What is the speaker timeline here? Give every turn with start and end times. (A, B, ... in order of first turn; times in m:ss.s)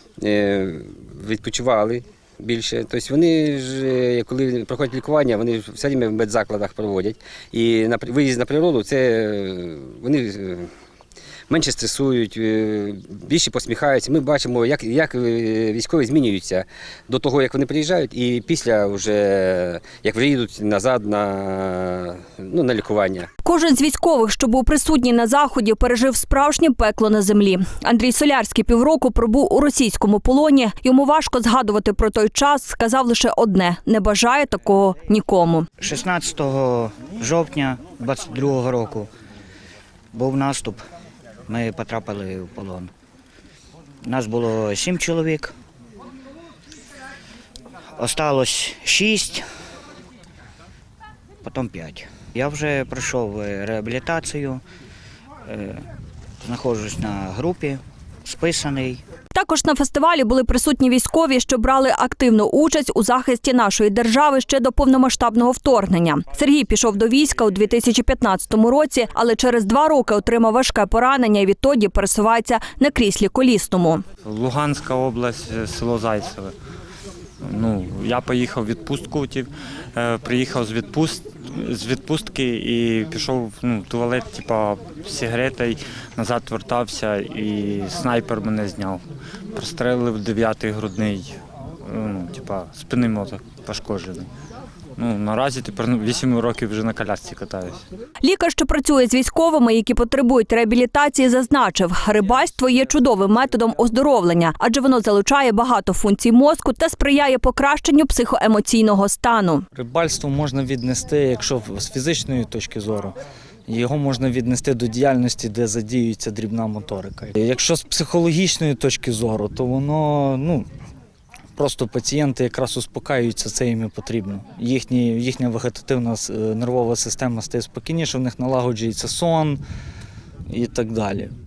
0:00.2-0:10.7 A
0:11.5-0:23.3 A
0:23.4-0:35.7 B
0:35.8-0:39.1 C
0:40.1-0:40.8 C
0:41.5-0:42.9 C
0:44.0-0:45.5 C
0:48.0-0:49.4 C
0:51.4-0:54.6 C
0:55.4-0:55.8 C
0:56.4-0:59.0 C
0:59.3-1:14.0 B
1:14.2-1:16.5 D
1:17.4-1:29.0 D
1:29.5-1:34.3 D
1:35.0-1:37.8 D
1:38.2-1:49.7 B
1:49.8-1:53.2 E
1:53.7-2:00.7 E
2:01.6-2:09.6 E
2:10.5-2:11.3 E